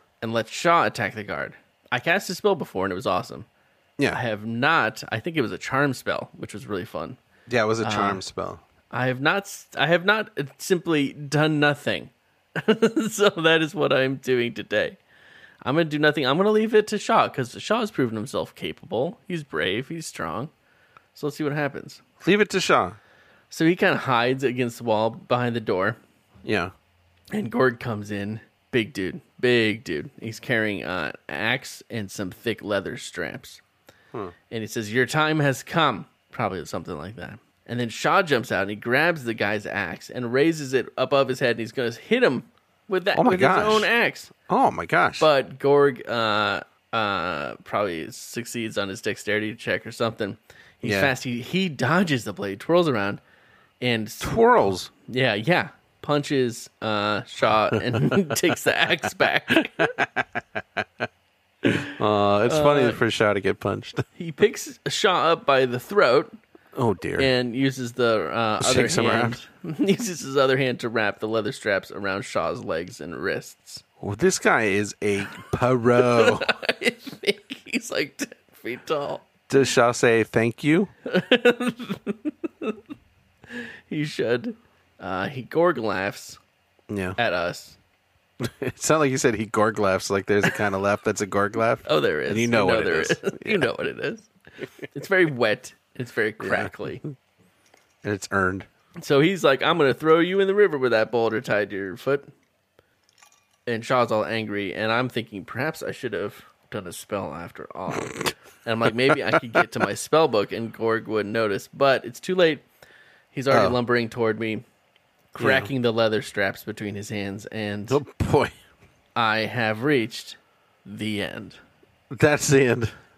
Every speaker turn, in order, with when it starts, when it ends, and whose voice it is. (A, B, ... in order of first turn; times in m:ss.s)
0:00.2-0:03.5 A
0:04.1-0:07.2 A
0:07.5-0:08.6 B
0:07.8-0:08.2 A
0:08.9-0:15.0 A
0:15.6-0:20.5 A
0:21.2-0:22.0 A
0:22.2-0:23.0 B
0:23.5-0:26.0 A
0:26.4-0:26.7 B
0:27.3-0:33.6 A
0:34.5-0:44.3 A
0:43.1-0:43.9 B
0:44.5-0:45.3 B
0:45.2-0:53.2 A
0:50.8-0:51.1 B
0:53.8-0:54.4 A
0:54.2-0:54.9 B
0:55.1-0:59.9 A
0:57.9-0:58.2 B
0:59.6-1:01.0 B
1:01.7-1:04.0 B
1:02.5-1:03.0 A
1:04.2-1:06.4 A
1:06.8-1:07.3 B
1:07.2-1:13.8 A
1:08.6-1:09.4 B
1:14.0-1:16.5 B
1:16.0-1:19.3 A
1:19.5-1:20.9 B
1:21.1-1:22.8 A
1:23.5-1:26.4 A
1:26.9-1:27.2 B
1:27.2-1:27.8 A
1:28.4-1:33.7 B
1:31.9-1:34.3 A
1:34.9-1:37.0 A
1:36.4-1:36.7 B
1:38.0-1:38.7 B
1:39.0-1:42.3 A
1:43.7-1:52.6 A
1:53.3-1:54.6 A
1:53.5-1:53.8 B
1:55.4-1:55.7 B
1:55.4-1:58.0 A
1:57.9-1:58.6 B
1:59.2-2:01.6 A
2:02.1-2:02.9 B